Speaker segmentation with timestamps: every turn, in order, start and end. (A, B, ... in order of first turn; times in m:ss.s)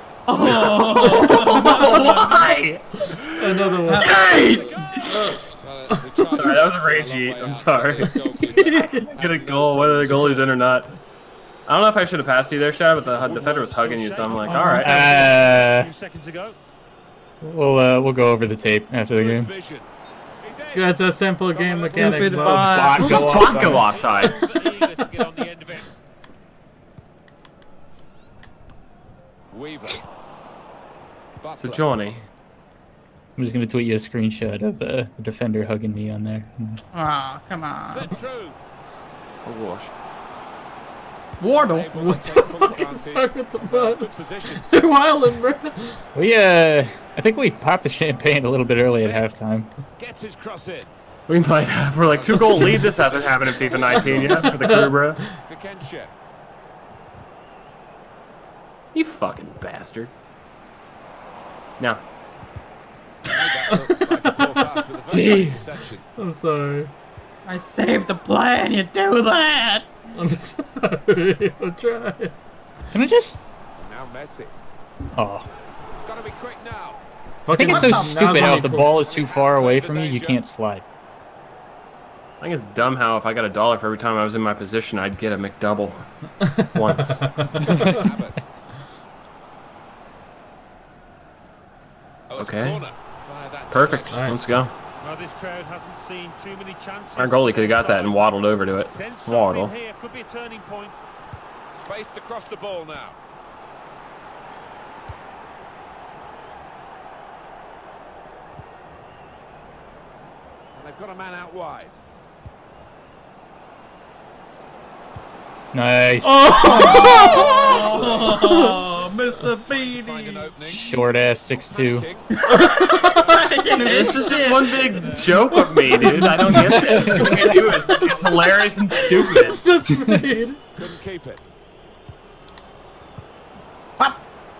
0:00.3-0:02.5 A
0:00.4-0:03.6 B
0:01.5-0:02.3 C
0:03.0-0:04.2 C
0:03.8-0:05.2 A
0:04.0-0:10.4 D
0:05.9-0:06.3 C
0:06.3-0:08.2 B
0:08.0-0:09.1 C
0:08.9-0:10.9 B
0:10.1-0:10.4 C
0:11.7-0:15.0 B
0:13.0-0:15.4 D
0:14.4-0:16.6 E
0:14.6-0:15.9 F
0:17.4-0:19.5 F
0:19.1-0:19.9 D
0:20.4-0:21.0 D
0:20.7-0:23.4 C
0:21.5-0:25.9 D
0:21.8-0:23.0 A
0:22.6-0:23.9 F
0:23.0-0:24.4 B
0:23.7-0:25.5 E
0:29.5-0:30.0 D
0:31.4-0:32.0 D
0:31.6-0:32.2 B
0:33.4-0:36.8 F
0:36.9-0:38.1 A
0:37.8-0:38.6 D
0:39.4-0:39.9 B
0:41.4-0:41.9 A
0:41.5-0:44.6 D
0:41.9-0:46.0 C
0:46.1-0:49.7 F
0:49.0-0:49.2 D
0:50.0-0:50.9 D
0:51.3-0:55.2 B
0:52.1-0:54.6 D
0:52.4-0:52.9 C
0:53.7-0:55.4 C
0:55.4-0:56.1 D
0:58.9-1:00.1 B
1:03.2-1:06.0 D
1:03.7-1:04.6 C
1:05.1-1:05.6 B
1:06.2-1:06.9 C
1:07.4-1:09.9 A
1:10.1-1:12.3 C
1:12.9-1:13.4 F
1:13.8-1:14.6 D
1:15.2-1:15.4 F
1:16.0-1:17.0 D
1:17.4-1:19.0 C
1:17.5-1:20.8 F
1:17.6-1:18.7 A
1:18.8-1:20.4 D
1:22.4-1:26.1 B
1:26.4-1:28.0 C
1:26.7-1:27.2 B
1:27.5-1:28.5 D
1:27.6-1:28.0 F
1:32.3-1:34.2 D
1:32.4-1:32.8 B
1:33.7-1:34.7 B
1:34.1-1:34.4 C
1:35.0-1:40.9 E
1:37.2-1:39.8 B
1:41.7-1:43.2 D
1:50.7-1:52.0 D
1:55.7-1:57.0 F
1:56.2-1:58.8 C
1:56.5-2:00.5 A
1:56.9-1:58.4 D
1:59.6-2:02.3 D
2:00.6-2:02.1 F
2:02.3-2:05.8 A
2:02.4-2:03.4 C
2:03.8-2:10.0 B
2:04.0-2:05.4 D
2:05.5-2:08.2 C
2:06.0-2:07.8 F
2:08.9-2:09.5 F
2:09.1-2:10.6 C
2:10.0-2:10.3 F
2:10.8-2:11.5 D